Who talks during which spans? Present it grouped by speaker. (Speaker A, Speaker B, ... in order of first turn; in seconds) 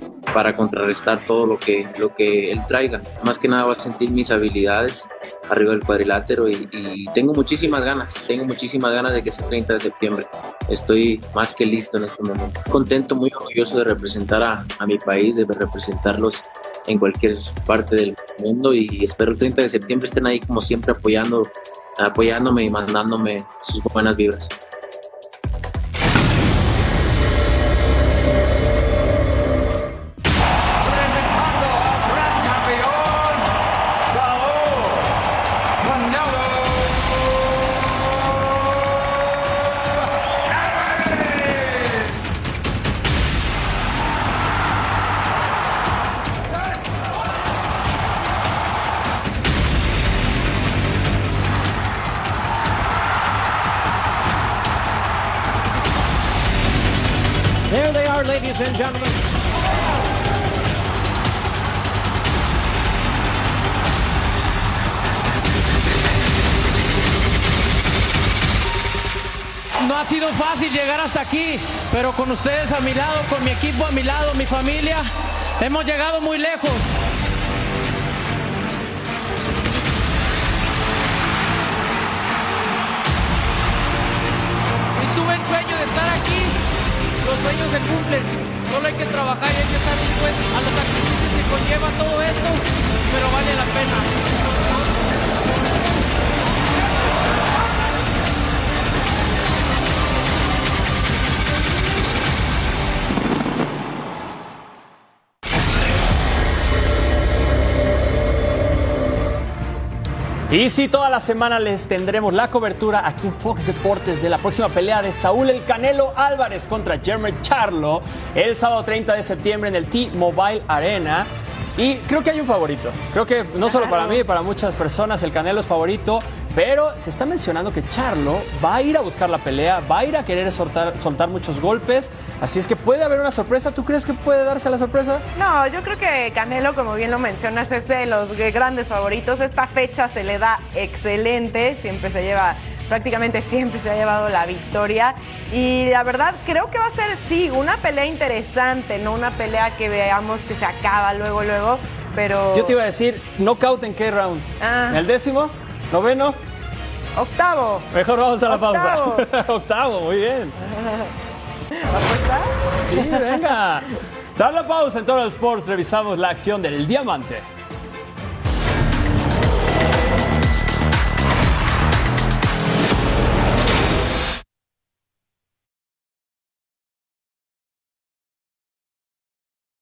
Speaker A: 0.3-24.5
Speaker B: 57.7-58.9, 69.8-76.9, 85.0-86.6, 87.2-94.1
Speaker C: 110.5-135.2, 152.5-156.4, 157.9-160.5, 162.9-167.4
Speaker D: 123.6-124.2, 135.3-152.8, 154.6-155.0, 157.2-157.9, 158.5-159.3, 160.6-161.1, 161.8-163.4